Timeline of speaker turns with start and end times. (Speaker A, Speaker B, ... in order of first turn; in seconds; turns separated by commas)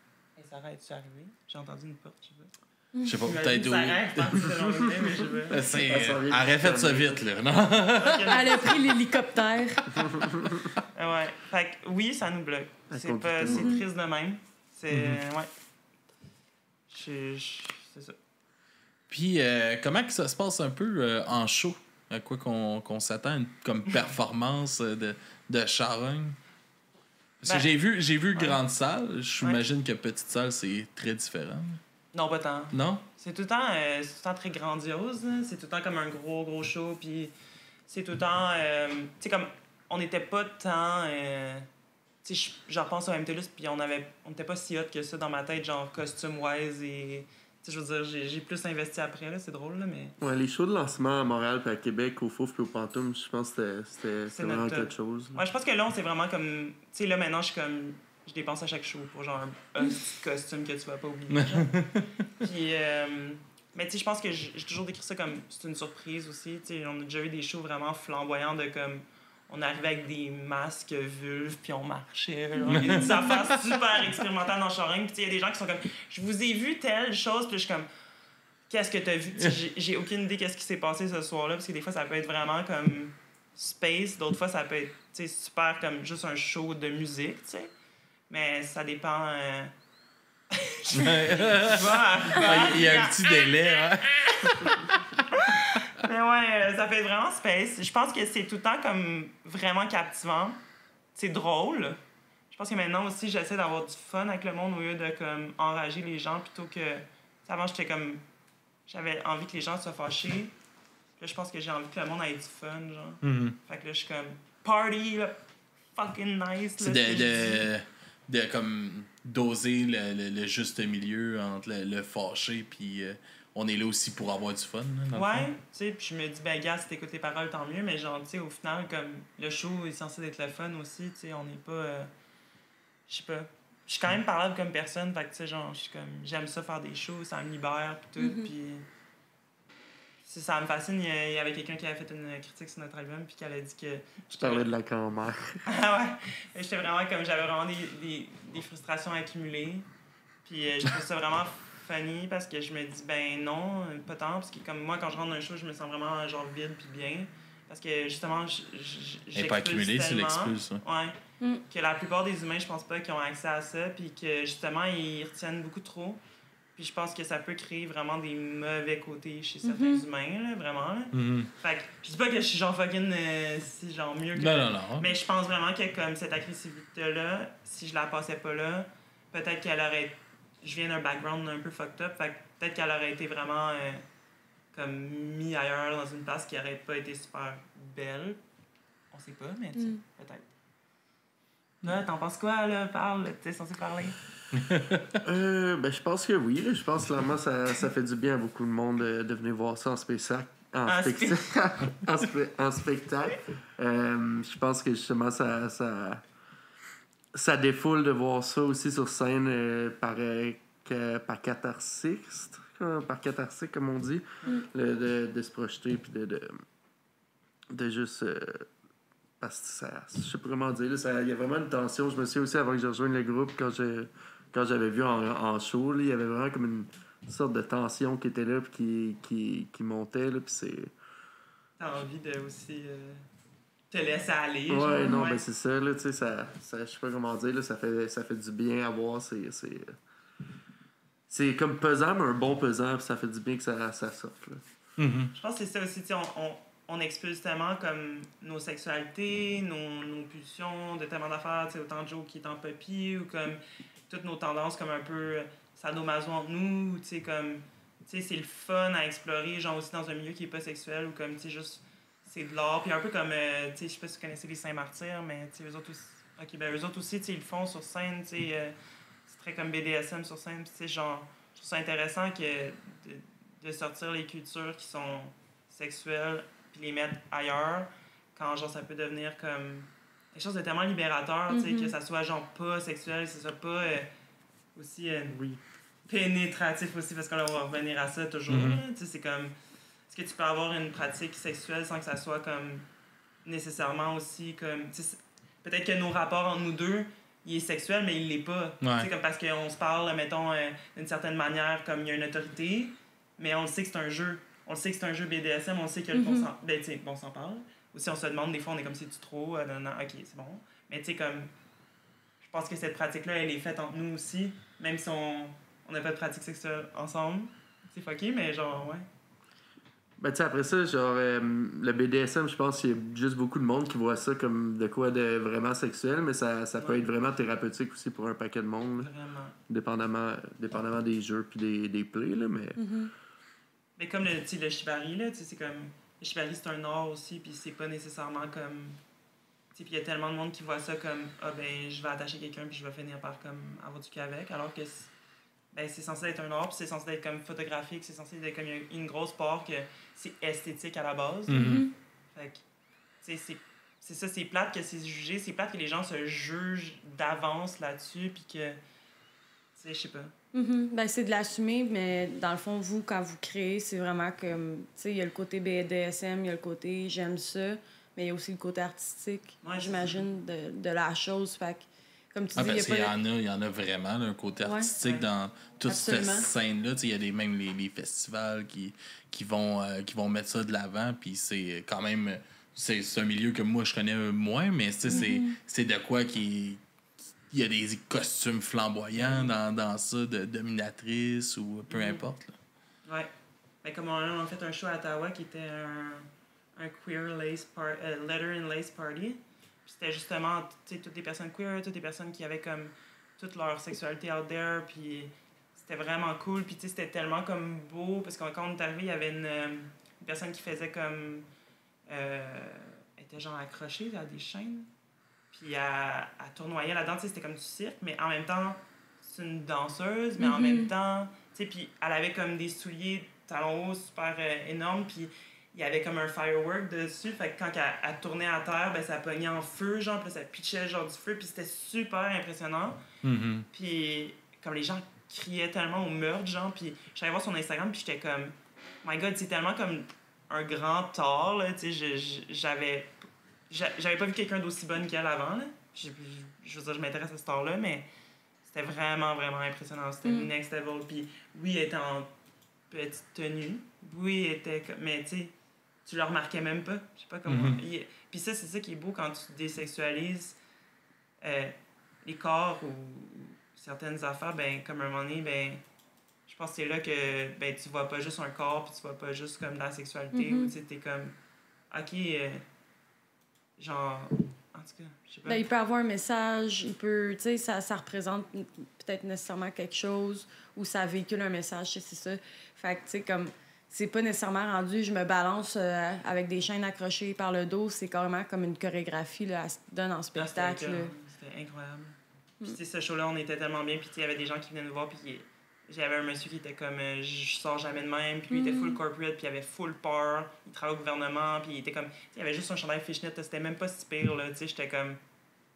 Speaker A: 0.4-2.5, Speaker B: 2.9-3.2, Speaker C: 3.0-4.5, Speaker A: 3.2-5.6, Speaker C: 5.5-8.7, Speaker D: 5.6-7.2, Speaker A: 8.0-8.8, Speaker B: 8.3-10.3, Speaker D: 10.1-10.5, Speaker A: 10.9-15.5, Speaker D: 12.9-13.8, Speaker B: 13.5-13.8, Speaker C: 14.9-15.2, Speaker A: 16.9-18.1, Speaker C: 19.1-26.4, Speaker C: 27.4-31.8, Speaker A: 27.4-27.7, Speaker A: 28.3-28.6, Speaker A: 29.4-29.6, Speaker A: 32.1-37.3, Speaker C: 32.7-33.0, Speaker A: 37.9-41.7, Speaker A: 42.2-50.2, Speaker D: 50.2-55.4, Speaker A: 54.3-61.8, Speaker C: 61.3-62.0, Speaker A: 62.4-77.9, Speaker B: 72.5-73.5, Speaker C: 72.7-73.1, Speaker A: 78.7-87.7, Speaker A: 88.3-89.7, Speaker A: 90.5-100.6, Speaker C: 90.9-95.0, Speaker A: 101.1-102.0, Speaker A: 102.5-108.2, Speaker A: 108.9-110.5, Speaker A: 111.2-115.4, Speaker C: 113.2-113.6, Speaker A: 115.9-117.7, Speaker C: 116.8-125.5, Speaker A: 125.1-132.1, Speaker A: 133.1-138.9, Speaker B: 138.2-138.5, Speaker A: 140.2-144.7, Speaker D: 144.3-145.6, Speaker A: 145.7-149.9, Speaker A: 150.4-161.2, Speaker C: 159.3-160.8, Speaker A: 161.7-166.2, Speaker A: 166.8-184.0, Speaker B: 169.6-170.0, Speaker C: 171.1-171.5, Speaker C: 174.3-175.1, Speaker A: 184.7-188.4, Speaker A: 189.1-190.5, Speaker A: 191.8-194.2, Speaker C: 194.6-195.0, Speaker D: 195.2-206.2, Speaker A: 200.8-201.4, Speaker D: 207.3-216.6, Speaker D: 217.7-218.7, Speaker D: 219.4-230.9, Speaker A: 231.8-233.2, Speaker A: 233.9-235.4, Speaker D: 234.7-240.0, Speaker B: 235.0-235.2, Speaker D: 241.3-244.6, Speaker C: 245.0-245.3, Speaker A: 245.3-268.7, Speaker A: 269.3-284.1, Speaker B: 281.5-281.9, Speaker A: 284.7-285.4, Speaker D: 285.3-285.6, Speaker A: 286.1-289.5, Speaker C: 288.5-288.8, Speaker A: 290.1-292.9, Speaker A: 293.4-311.5, Speaker C: 298.8-299.1, Speaker B: 306.1-306.5, Speaker A: 312.4-319.1, Speaker D: 320.2-329.1, Speaker A: 326.8-327.0, Speaker A: 329.0-329.6, Speaker D: 329.7-332.8, Speaker B: 332.8-333.1, Speaker A: 334.0-339.0, Speaker A: 339.7-345.1, Speaker A: 345.7-351.8, Speaker C: 351.5-351.9, Speaker B: 351.6-351.9, Speaker A: 352.3-352.6, Speaker A: 353.2-358.8, Speaker A: 359.8-360.3, Speaker B: 360.5-373.1, Speaker A: 369.6-370.2, Speaker C: 372.5-386.8, Speaker B: 374.6-374.9, Speaker B: 375.9-376.5, Speaker B: 385.1-385.5, Speaker C: 387.5-392.6, Speaker A: 389.1-389.5, Speaker A: 391.9-392.2, Speaker A: 393.1-393.3, Speaker A: 393.8-411.5, Speaker A: 412.1-414.9, Speaker A: 415.5-433.0, Speaker B: 420.4-420.9, Speaker C: 433.2-433.7, Speaker A: 433.7-443.1, Speaker A: 443.7-448.1, Speaker A: 448.6-452.3, Speaker B: 450.2-450.5, Speaker A: 452.9-455.5, Speaker A: 456.0-460.6, Speaker C: 457.5-457.8, Speaker A: 461.4-465.8, Speaker A: 466.5-471.3, Speaker B: 470.3-470.7, Speaker A: 471.9-472.6, Speaker A: 473.8-475.6, Speaker B: 475.4-491.1, Speaker A: 490.3-505.2, Speaker B: 498.5-499.0